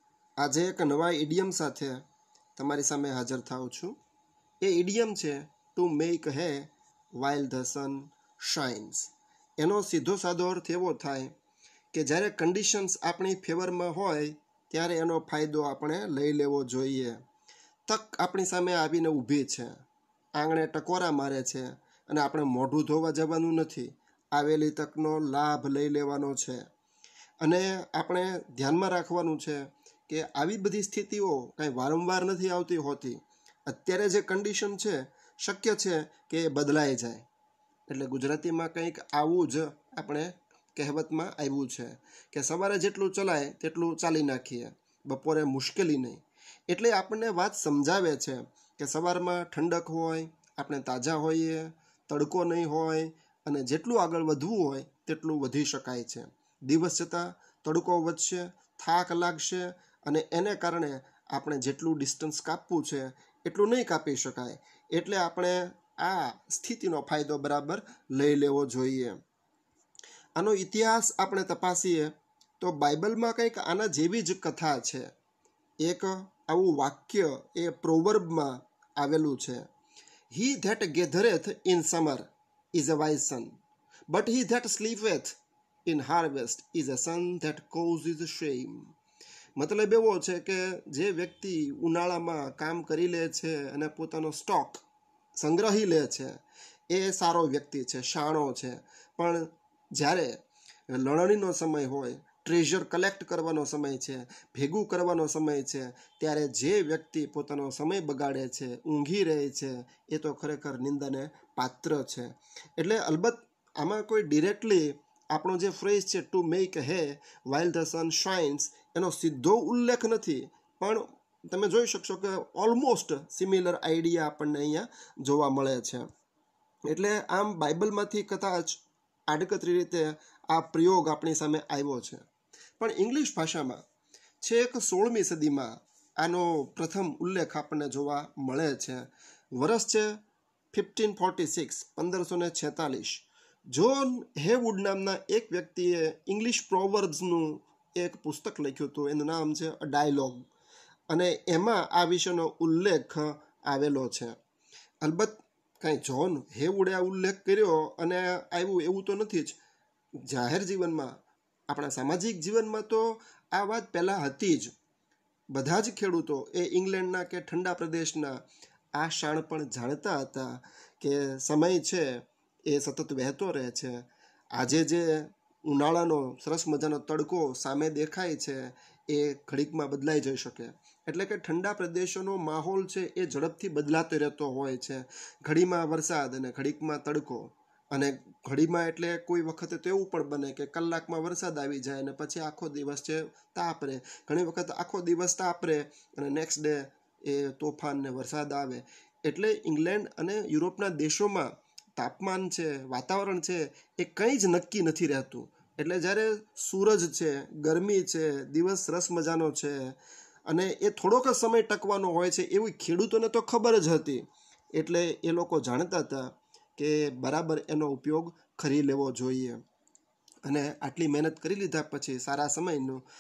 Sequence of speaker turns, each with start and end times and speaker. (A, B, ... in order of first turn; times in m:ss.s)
0:00.4-0:02.0 A
0:02.6-0:04.0 A
0:04.6-0:11.3 A
0:11.9-0:17.2 A
0:17.9-0:19.8 A
0:20.4-0:26.7 A
0:27.4-0:37.3 A
0:37.9-1:09.2 A
1:10.4-1:15.1 A
1:15.8-1:19.7 A
1:20.3-1:23.6 A
1:24.1-1:28.9 A
1:29.6-1:34.8 A
1:35.4-2:06.1 A
2:06.9-2:12.3 A
2:12.8-2:13.8 A
2:14.4-2:30.5 A
2:31.1-2:34.4 A
2:35.0-2:39.6 A
2:40.2-2:44.7 A
2:45.5-2:48.4 A
2:48.9-3:39.6 A
3:40.4-3:43.0 A